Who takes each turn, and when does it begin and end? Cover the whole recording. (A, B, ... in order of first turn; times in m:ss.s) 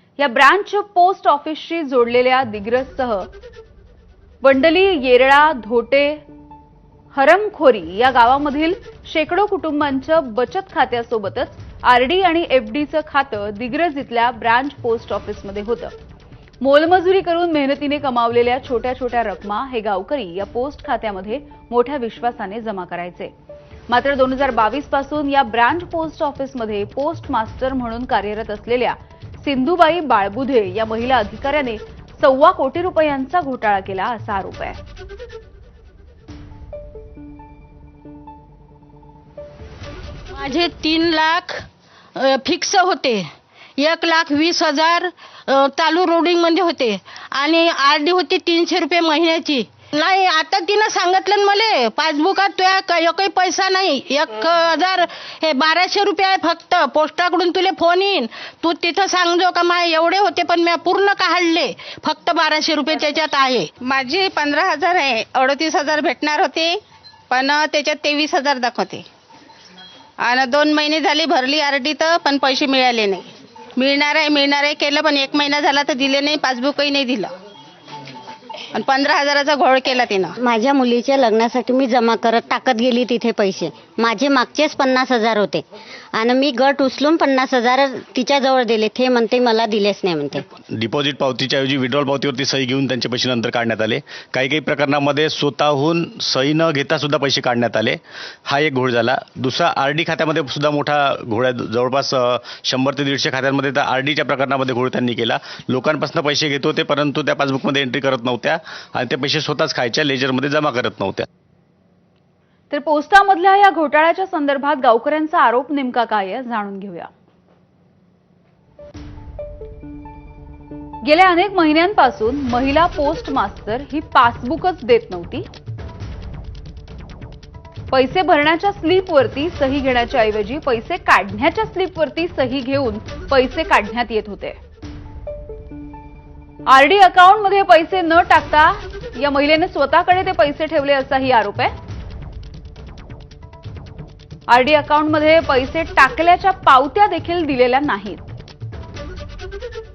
0:00.2-0:03.3 A
0:04.4-0:06.2 A
0:07.1-0:15.9 A
0:16.6-0:23.3 A
0:23.9-0:34.8 A
0:40.3-0:43.2 B
0:43.8-1:03.7 B
1:03.8-1:06.8 C
1:07.3-1:09.0 C
1:10.2-1:17.3 C
1:18.7-1:20.4 C
1:20.4-1:30.4 D
1:30.7-1:51.2 E
1:52.7-1:57.1 A
2:01.0-2:05.5 A
2:07.9-2:14.6 A
2:16.7-2:21.7 A
2:24.5-2:28.2 A